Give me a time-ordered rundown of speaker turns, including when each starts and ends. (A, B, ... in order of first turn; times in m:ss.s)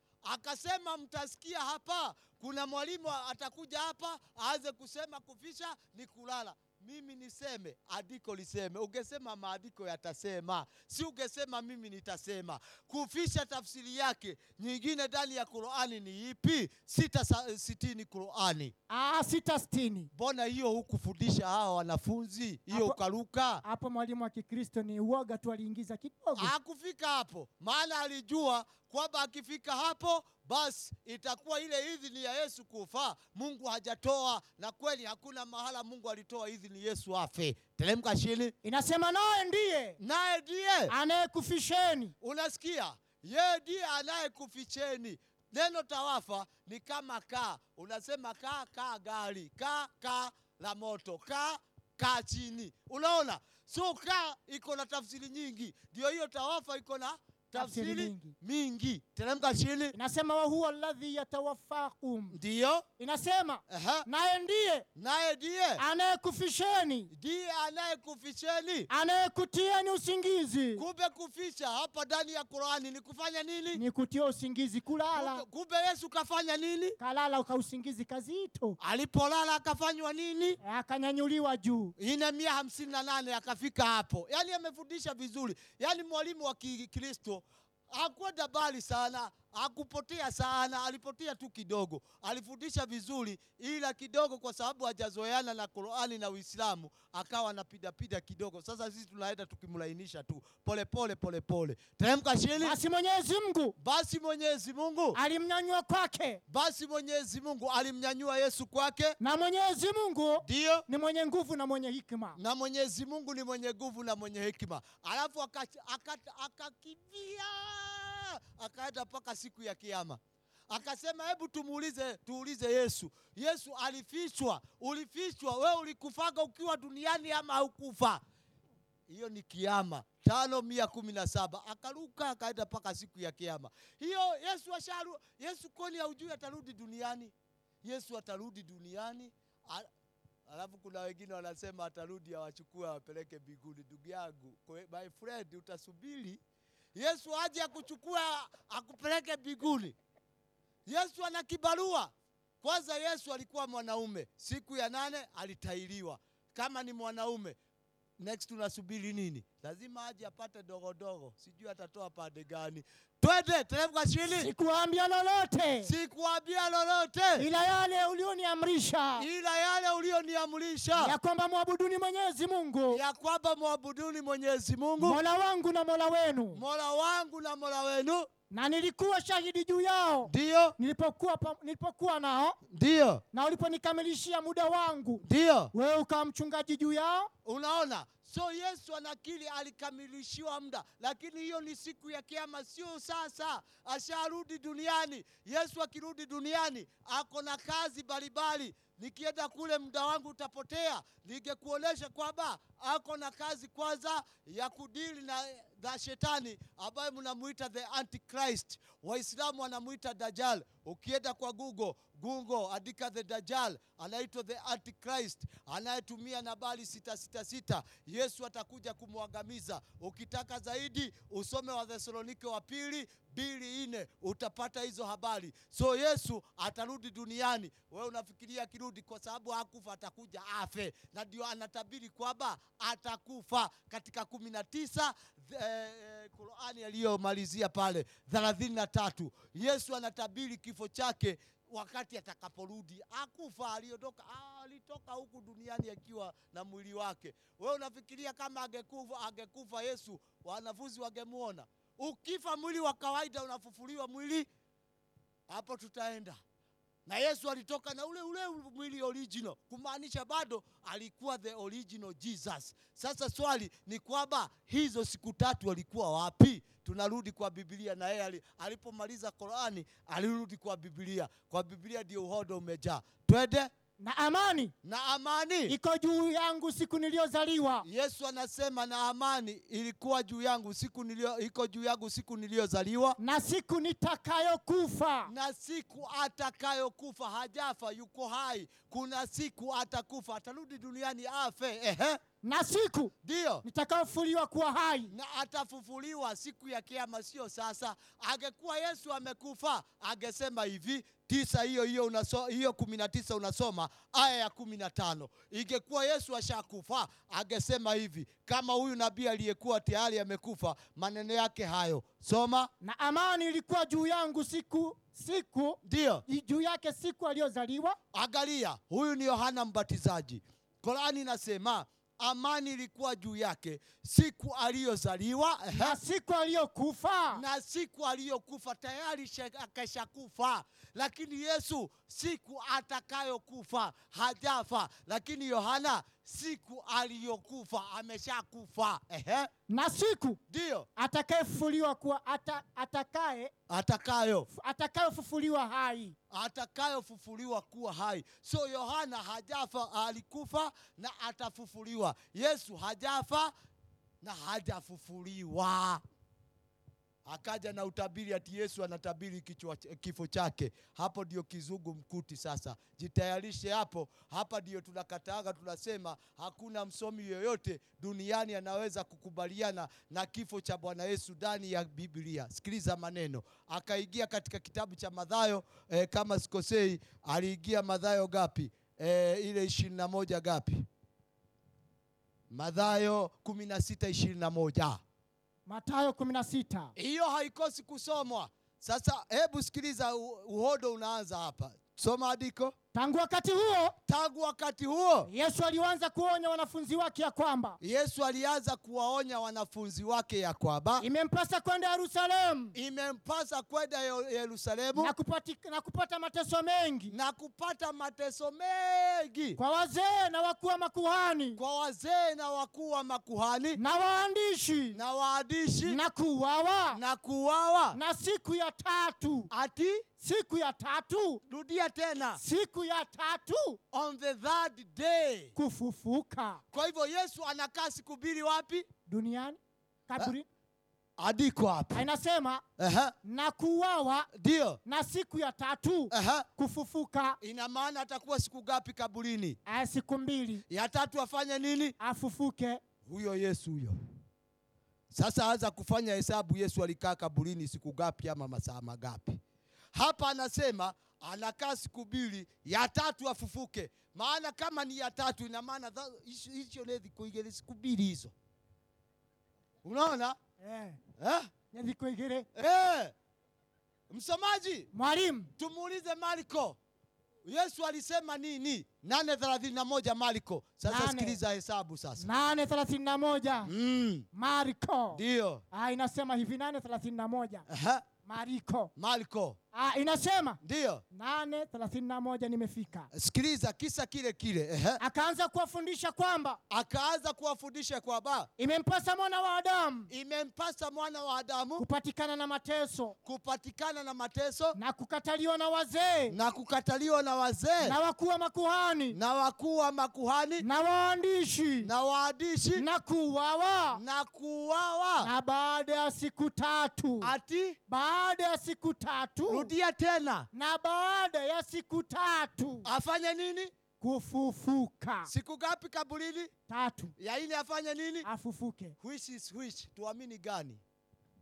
0:00.2-0:18.7 A
0:18.9-0:20.1 B
0:20.1-0:23.6 A
0:22.7-0:23.0 B
0:23.6-0:26.5 B
0:26.4-0:38.5 A
0:38.6-0:40.0 B
0:40.0-0:40.9 A
0:40.9-0:42.1 B
0:42.2-0:59.9 A
0:57.5-0:58.3 B
0:59.9-1:02.4 B
1:02.3-1:02.8 A
1:03.0-1:04.8 B
1:03.7-1:04.0 A
1:05.0-1:05.8 A
1:05.8-1:07.1 B
1:07.1-1:08.9 A
1:08.9-1:10.8 B
1:10.8-1:13.8 A
1:13.7-1:15.4 B
1:15.1-1:17.0 A
1:17.0-1:18.8 B
1:18.8-1:20.6 A
1:20.6-1:21.9 B
1:22.0-1:42.8 A
1:42.6-1:43.7 B
1:43.8-1:45.2 A
1:45.1-1:46.4 B
1:46.5-1:49.2 A
1:49.2-1:52.4 B
1:50.4-1:50.8 A
1:52.4-2:08.2 A
2:09.1-2:19.9 A
2:20.5-2:26.4 A
2:26.9-2:29.9 A
2:30.8-2:32.1 A
2:32.6-2:37.6 A
2:38.2-2:44.5 A
2:44.3-2:45.9 B
2:45.8-2:47.4 A
2:47.4-2:49.2 B
2:49.2-2:51.2 A
2:51.0-2:53.0 B
2:52.9-2:55.2 A
2:55.0-2:56.6 B
2:56.5-2:58.3 A
2:58.5-3:02.6 B
3:00.3-3:00.7 A
3:02.7-3:03.2 A
3:03.3-3:07.3 B
3:05.2-3:05.7 A
3:07.4-4:14.5 A
4:15.5-4:16.4 A
4:17.0-4:33.7 A
4:34.0-4:34.7 B
4:34.8-4:35.7 A
4:35.7-4:37.8 B
4:37.8-4:43.2 A
4:43.2-4:45.3 B
4:45.3-4:52.2 A
4:52.4-4:55.1 B
4:53.2-4:53.6 A
4:55.1-5:12.7 A
5:12.8-5:18.0 B
5:15.8-5:16.2 A
5:18.1-5:26.0 A
5:25.7-5:27.4 B
5:27.3-5:39.5 A
5:39.7-5:40.4 B
5:40.5-5:40.9 A
5:41.0-5:43.5 B
5:43.7-5:44.5 A
5:44.5-5:46.1 B
5:46.3-5:53.5 A
5:54.2-5:56.0 A
5:57.2-6:20.8 A
6:22.5-6:25.0 A
6:25.7-6:26.9 B
6:27.0-6:32.7 A
6:32.9-6:34.0 B
6:34.1-6:35.3 A
6:35.3-6:37.8 B
6:37.8-6:41.0 A
6:41.0-6:42.7 B
6:42.7-6:45.1 A
6:45.0-6:47.1 B
6:47.1-6:49.6 A
6:49.6-6:51.6 B
6:51.6-6:53.8 A
6:53.8-6:55.0 B
6:54.9-6:56.0 A
6:55.8-6:57.0 B
6:56.9-6:58.0 A
6:57.9-6:59.5 B
6:59.5-7:00.0 A
7:00.2-7:01.4 B
7:01.5-7:02.4 A
7:02.4-7:03.8 B
7:03.9-7:05.5 A
7:05.5-7:06.6 B
7:06.7-7:08.8 A
7:09.1-7:10.4 B
7:11.2-7:12.0 A
7:11.9-7:12.6 B
7:12.8-7:13.1 A
7:13.2-7:14.3 B
7:14.3-7:14.8 A
7:14.8-7:17.4 B
7:16.1-7:16.4 A
7:17.4-7:19.6 A
7:19.7-7:20.6 B
7:20.7-7:21.9 A
7:22.0-7:22.8 B
7:23.0-7:24.0 A
7:25.1-7:29.4 A
7:29.9-7:38.3 A
7:39.8-7:40.4 A
7:40.6-7:41.0 B
7:41.2-7:41.5 A
7:41.7-7:42.5 B
7:42.5-7:43.1 A
7:44.1-7:44.9 A
7:44.9-7:45.5 B
7:45.6-7:46.8 A
7:47.4-7:52.2 A
7:50.8-7:51.4 B
7:52.2-7:53.7 B
7:53.6-7:54.2 A
7:54.3-7:55.2 B
7:55.1-7:55.6 A
7:55.7-7:57.6 B
7:57.7-7:58.0 A
7:58.2-7:58.9 B
7:59.0-7:59.6 A
7:59.7-8:00.6 B
8:00.6-8:01.0 A
8:01.1-8:03.1 B
8:03.1-8:05.0 A
8:05.0-8:06.6 B
8:06.7-8:08.5 A
8:08.6-8:10.1 B
8:10.1-8:11.8 A
8:11.8-8:13.1 B
8:13.2-8:14.8 A
8:14.7-8:16.3 B
8:16.3-8:18.0 A
8:17.8-8:19.2 B
8:19.1-8:20.6 A
8:20.6-8:21.9 B
8:21.8-8:22.8 A
8:22.8-8:24.0 B
8:23.9-8:25.3 A
8:25.2-8:27.3 B
8:27.2-8:27.8 A
8:27.9-8:29.7 B
8:29.5-8:30.5 A
8:30.5-8:32.9 B
8:32.8-8:33.7 A
8:34.0-8:35.3 B
8:35.3-8:36.5 A
8:36.7-8:37.1 B
8:37.2-8:38.2 A
8:38.2-8:38.9 B
8:39.0-8:40.8 A